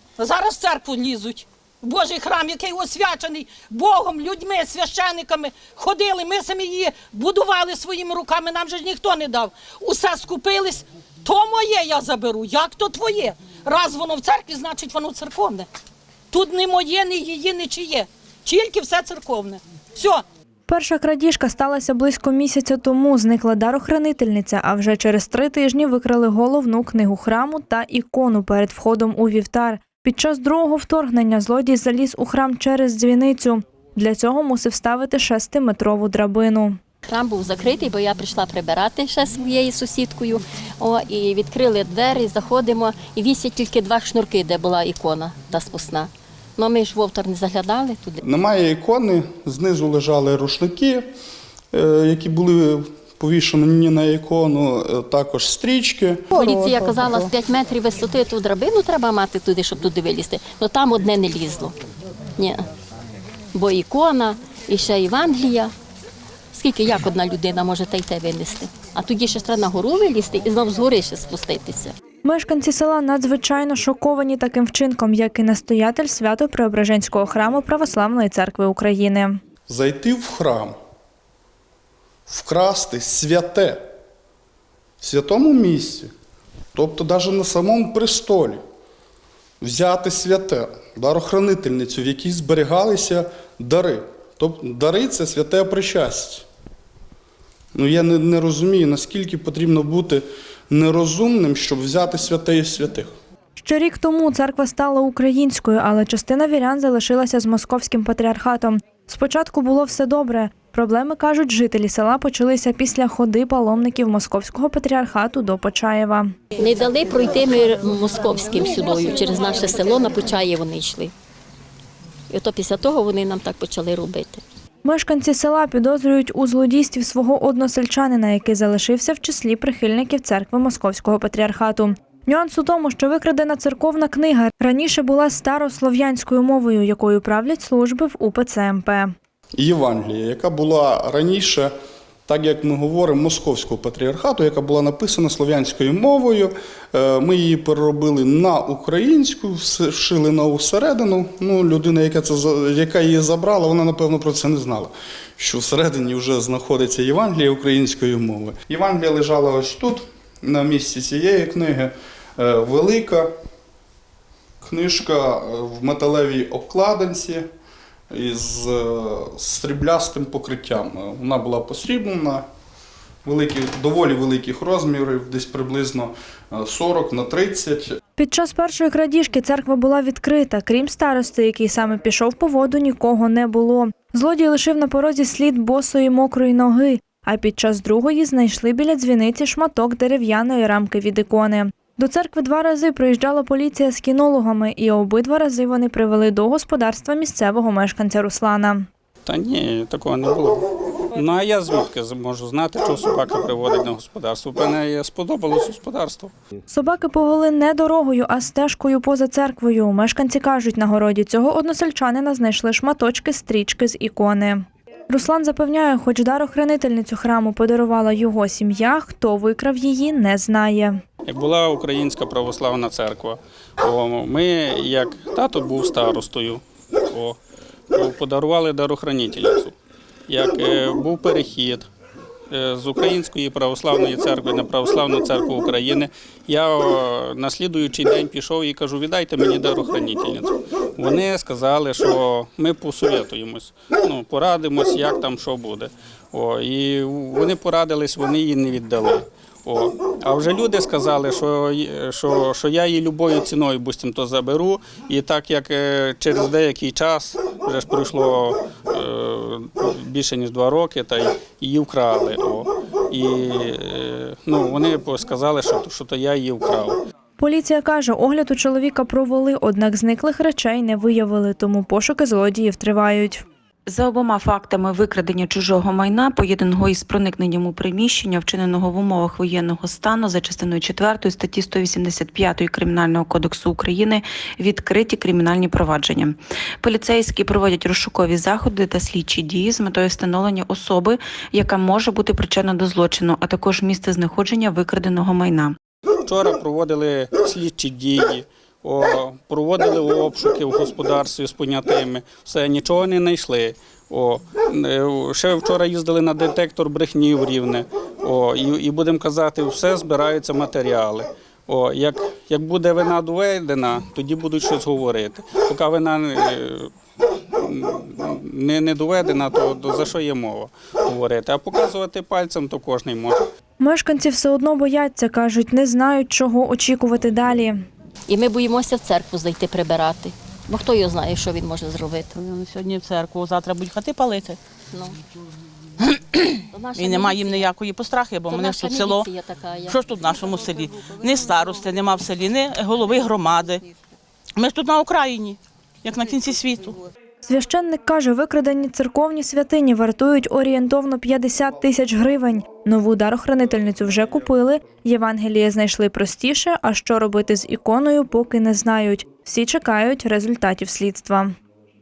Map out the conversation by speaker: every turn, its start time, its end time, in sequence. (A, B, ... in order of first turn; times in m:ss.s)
0:00.2-0:15.7 A
0:16.3-0:20.2 A
0:20.7-0:36.8 B
0:37.1-0:48.2 C
0:48.2-0:51.1 D
0:51.7-0:56.2 D
0:56.3-1:01.8 C
1:02.4-1:02.6 C
1:03.5-1:05.7 C
1:06.5-1:12.0 C
1:12.2-1:19.4 B
1:19.7-1:20.8 D
1:22.3-1:23.8 D
1:25.0-1:26.1 D
1:26.7-1:28.6 D
1:29.6-1:36.4 D
1:37.7-1:43.1 D
1:43.6-1:56.4 B
1:56.6-2:01.1 C
2:02.3-2:04.4 C
2:04.8-2:19.1 B
2:19.6-2:21.7 D
2:22.3-2:43.3 D
2:44.6-2:47.5 D
2:48.1-2:52.4 D
2:53.2-2:58.0 D
2:58.2-3:18.9 B
3:19.2-3:26.3 E
3:26.7-3:41.0 B
3:41.3-3:47.4 E
3:47.9-3:49.7 E
3:50.3-3:51.9 E
3:52.5-4:27.0 E
4:27.4-4:33.4 B
4:33.9-4:55.8 F
4:56.2-5:16.9 E
5:17.6-5:23.5 E
5:23.8-5:27.9 B
5:28.3-5:32.3 C
5:32.4-5:34.6 G
5:34.9-5:35.2 C
5:36.0-5:39.3 G
5:36.7-5:37.7 C
5:38.4-5:40.0 C
5:39.9-5:43.9 G
5:44.6-5:47.0 G
5:47.4-6:01.6 B